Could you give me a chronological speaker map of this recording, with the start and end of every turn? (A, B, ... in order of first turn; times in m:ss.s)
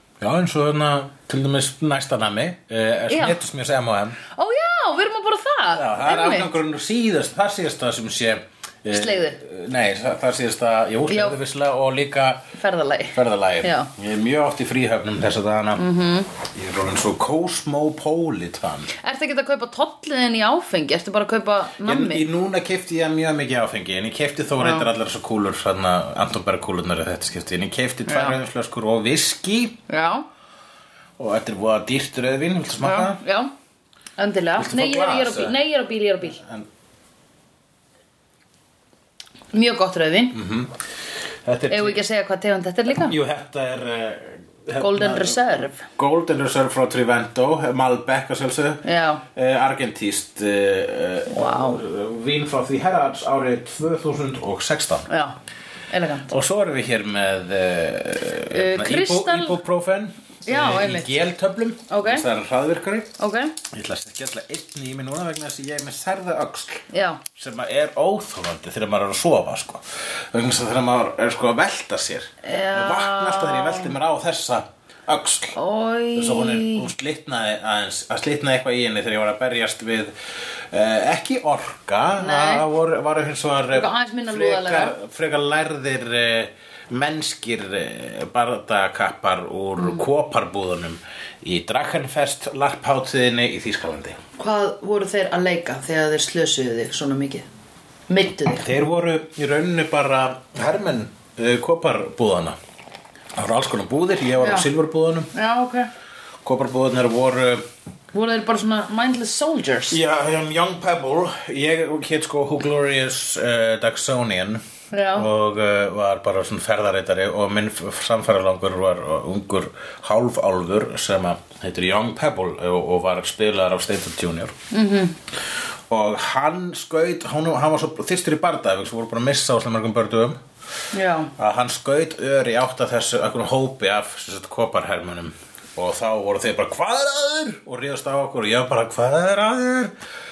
0:00.2-0:04.2 A
0:03.1-0:03.4 B
0:04.3-0:06.5 B
0:05.7-0:12.4 A
0:08.9-0:09.4 B
0:11.1-0:11.4 B
0:12.6-0:13.9 B
0:13.1-0:15.8 A
0:15.8-0:16.3 B
0:16.4-0:18.9 A
0:19.0-0:22.2 B
0:21.8-0:29.8 A
0:24.6-0:24.9 B
0:28.1-0:28.4 B
0:29.9-0:30.2 B
0:31.2-0:33.2 A
0:32.8-0:33.5 B
0:34.2-0:36.4 B
0:34.6-0:35.6 A
0:36.2-0:36.7 A
0:39.5-0:40.4 B
0:40.3-0:40.8 A
0:41.4-0:42.0 A
0:41.7-0:43.2 B
0:43.0-0:55.1 A
0:44.8-0:45.8 B
0:48.8-0:49.2 B
0:51.3-0:51.8 B
0:55.1-0:55.4 B
0:55.9-0:56.3 B
0:56.3-1:03.2 A
0:58.5-0:59.6 B
1:00.4-1:01.2 B
1:01.9-1:02.2 B
1:03.2-1:03.6 B
1:03.7-1:15.6 A
1:06.9-1:07.2 B
1:12.4-1:13.9 B
1:15.6-1:16.9 B
1:16.1-1:20.1 A
1:20.7-1:34.2 A
1:22.2-1:22.6 B
1:23.7-1:25.0 B
1:34.4-1:37.5 B
1:38.1-1:38.7 B
1:38.5-1:42.6 A
1:43.4-1:45.3 A
1:44.4-1:44.7 B
1:45.3-1:45.9 B
1:46.4-1:47.6 A
1:48.1-1:50.0 B
1:49.9-2:04.5 A
1:54.9-1:55.3 B
2:04.7-2:05.2 B
2:05.9-2:10.4 A
2:10.9-2:11.3 B
2:11.4-2:19.9 A